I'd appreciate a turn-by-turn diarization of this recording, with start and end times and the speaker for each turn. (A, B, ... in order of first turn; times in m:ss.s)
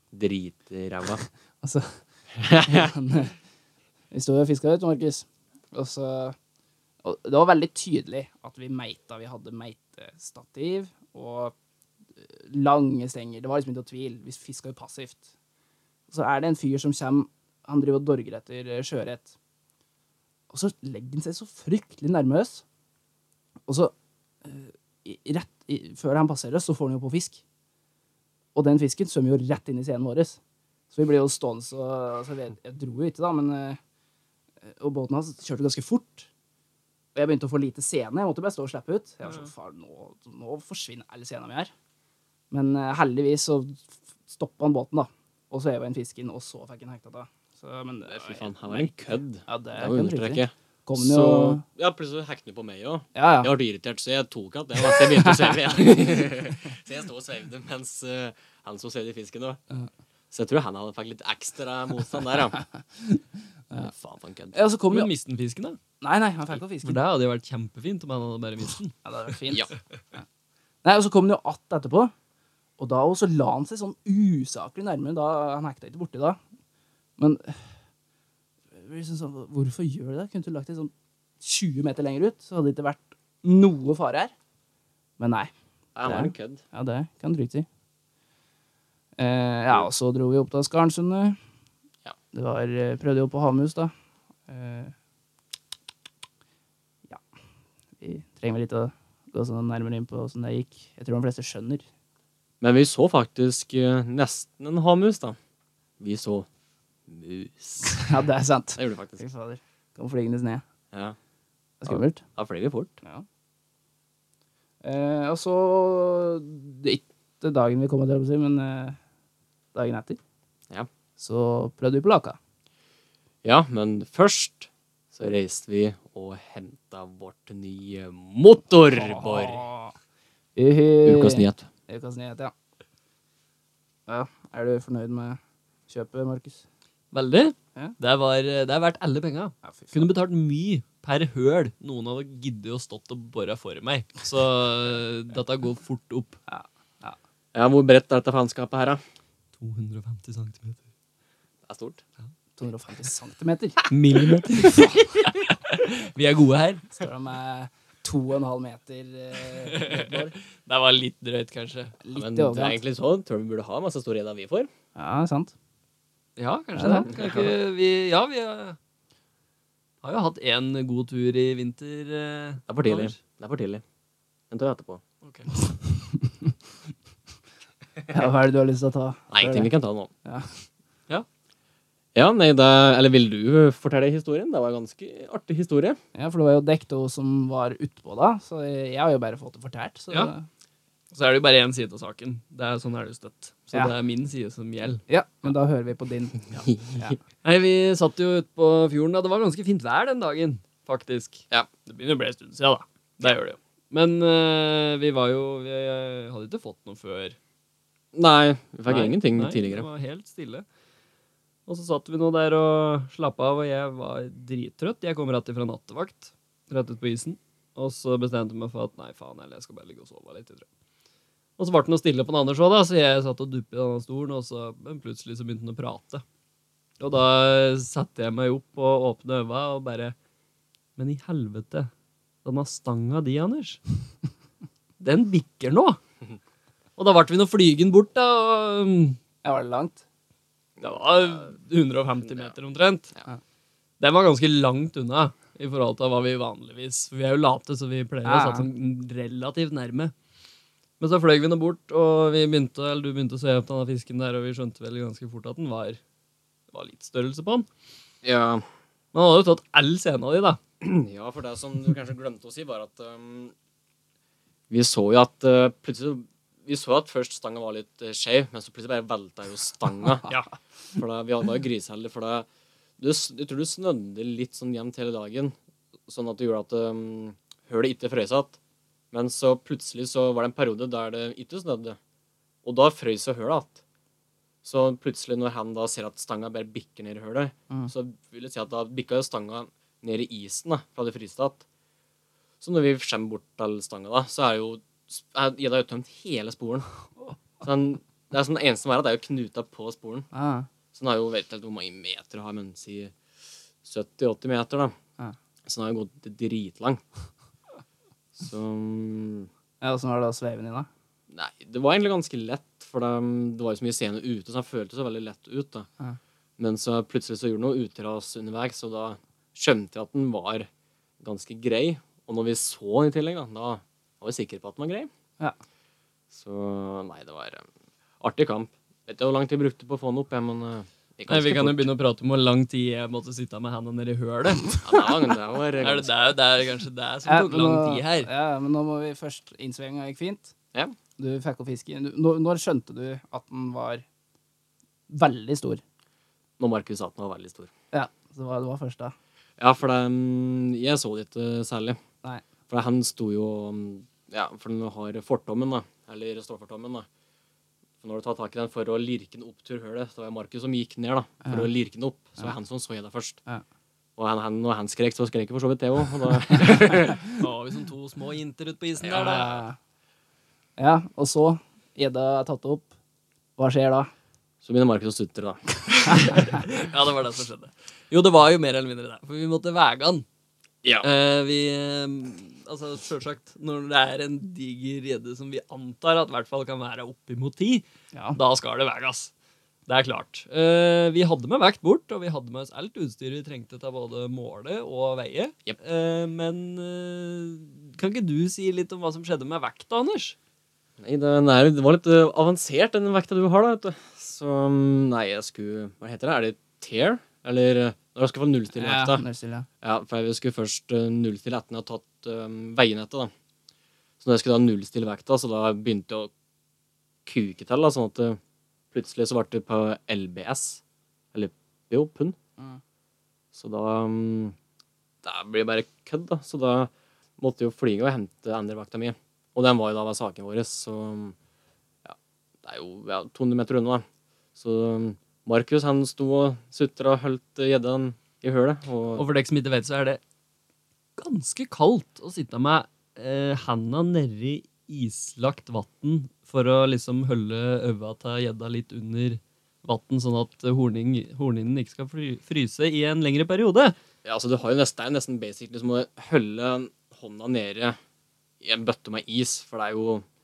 0:00.1-0:01.2 A
0:01.2-0:02.0 B
0:02.4-0:02.9 A
0:02.6-0:03.3 B
0:04.1-0:06.4 B
0:07.0-0:11.5 B
0:12.2-0:15.2 B
0:16.1-0:19.3 B
0:20.5-0:22.6 B
0:23.7-0:23.9 B
0:24.4-0:27.4 B
0:28.5-0:30.4 B
0:30.9-0:33.8 B
0:34.6-0:36.3 B
0:37.1-0:41.7 B
0:42.5-0:51.6 B
0:48.1-0:59.6 A
0:53.1-0:53.5 B
0:54.9-0:55.5 B
1:00.3-1:02.6 A
1:02.6-1:03.9 B
1:03.8-1:04.6 A
1:04.5-1:05.1 B
1:04.9-1:05.8 C
1:06.0-1:07.0 B
1:06.8-1:09.0 C
1:09.0-1:10.2 B
1:10.8-1:12.1 B
1:12.8-1:16.4 B
1:17.2-1:17.6 B
1:18.7-1:24.3 B
1:25.2-1:25.5 B
1:25.9-1:26.6 A
1:26.0-1:27.6 B
1:29.2-1:31.4 B
1:32.3-1:33.9 B
1:34.5-1:34.9 B
1:38.0-1:41.8 B
1:42.6-1:45.4 A
1:46.0-1:46.5 A
1:47.1-1:48.1 A
1:47.9-1:50.6 B
1:48.8-1:49.2 A
1:51.8-1:52.2 B
1:51.9-1:52.9 A
1:54.8-1:59.0 B
1:59.7-2:00.2 B
2:01.2-2:02.4 B
2:03.4-2:09.6 A
2:08.9-2:09.9 B
2:10.6-2:12.5 B
2:11.0-2:11.7 A
2:14.1-2:16.6 B
2:17.1-2:26.4 C
2:19.6-2:20.1 B
2:26.5-2:27.2 B
2:27.5-2:29.0 A
2:29.6-2:30.8 C
2:31.6-2:32.0 A
2:32.6-2:33.9 B
2:33.8-2:36.9 C
2:34.6-2:35.0 B
2:37.0-2:40.4 B
2:39.6-2:41.9 C
2:42.0-2:42.8 B
2:42.1-2:44.7 A
2:45.0-2:45.5 B
2:46.4-2:48.8 C
2:46.8-2:47.1 B
2:47.1-2:47.5 A
2:50.0-2:53.1 C
2:52.7-2:53.8 A
2:54.5-2:55.0 A
2:55.2-2:55.5 C
2:55.9-2:56.5 B
2:58.1-2:59.7 B
2:59.3-3:00.1 A
3:00.2-3:00.6 B
3:02.1-3:06.0 A
3:06.1-3:10.5 B
3:11.1-3:15.0 C
3:15.1-3:16.4 B
3:16.5-3:17.1 A
3:17.4-3:27.4 C
3:28.1-3:29.9 A
3:28.9-3:30.6 C
3:31.7-3:40.6 C
3:41.6-3:46.2 C
3:47.0-3:50.1 C
3:51.0-3:51.9 C
3:52.4-3:53.8 C
3:55.0-3:56.0 C
3:57.0-3:59.2 C
3:59.4-4:00.0 B
4:00.8-4:01.5 A
4:00.8-4:03.1 C
4:04.0-4:10.1 C
4:08.2-4:08.7 B
4:11.0-4:16.0 C
4:16.7-4:17.7 C
4:18.2-4:18.6 A
4:19.1-4:20.6 C
4:20.8-4:23.5 A
4:24.7-4:30.3 A
4:30.9-4:32.5 A
4:33.0-4:35.5 A
4:36.1-4:38.6 A
4:39.1-4:42.0 A
4:42.6-4:43.8 A
4:44.6-4:51.6 A
4:52.6-4:56.9 A
4:57.6-5:00.3 A
5:00.3-5:00.7 B
5:00.9-5:03.1 A
5:03.8-5:04.9 A
5:05.6-5:07.0 A
5:08.3-5:09.5 A
5:09.8-5:10.9 B
5:11.3-5:15.9 A
5:16.6-5:20.7 A
5:21.2-5:25.1 A
5:26.3-5:27.6 A
5:28.2-5:31.9 A
5:31.3-5:34.9 C
5:34.8-5:36.1 A
5:35.8-5:38.3 C
5:37.2-5:40.5 B
5:41.2-5:44.0 B
5:45.1-5:45.8 B
5:46.6-5:47.7 A
5:47.9-5:49.1 B
5:49.6-5:52.0 A
5:52.7-5:57.1 A
5:58.0-6:03.4 A
6:01.4-6:01.7 B
6:04.2-6:07.3 A
6:07.3-6:09.5 C
6:09.0-6:09.5 A
6:09.1-6:09.8 B
6:10.8-6:12.9 B
6:13.6-6:14.1 B
6:14.6-6:15.6 A
6:16.0-6:20.2 C
6:21.0-6:27.8 C
6:28.1-6:28.4 B
6:28.3-6:29.3 C
6:29.9-6:40.4 C
6:41.0-6:49.2 A
6:48.7-6:49.7 B
6:49.8-6:53.3 A
6:54.2-6:56.3 A
6:57.2-6:58.4 A
6:58.9-7:00.8 A
7:01.3-7:02.4 A
7:03.5-7:04.6 A
7:05.2-7:11.4 A
7:12.0-7:14.0 A
7:14.6-7:19.2 A
7:19.2-7:20.2 C
7:21.2-7:33.9 C
7:34.2-7:38.0 A
7:38.6-7:40.2 A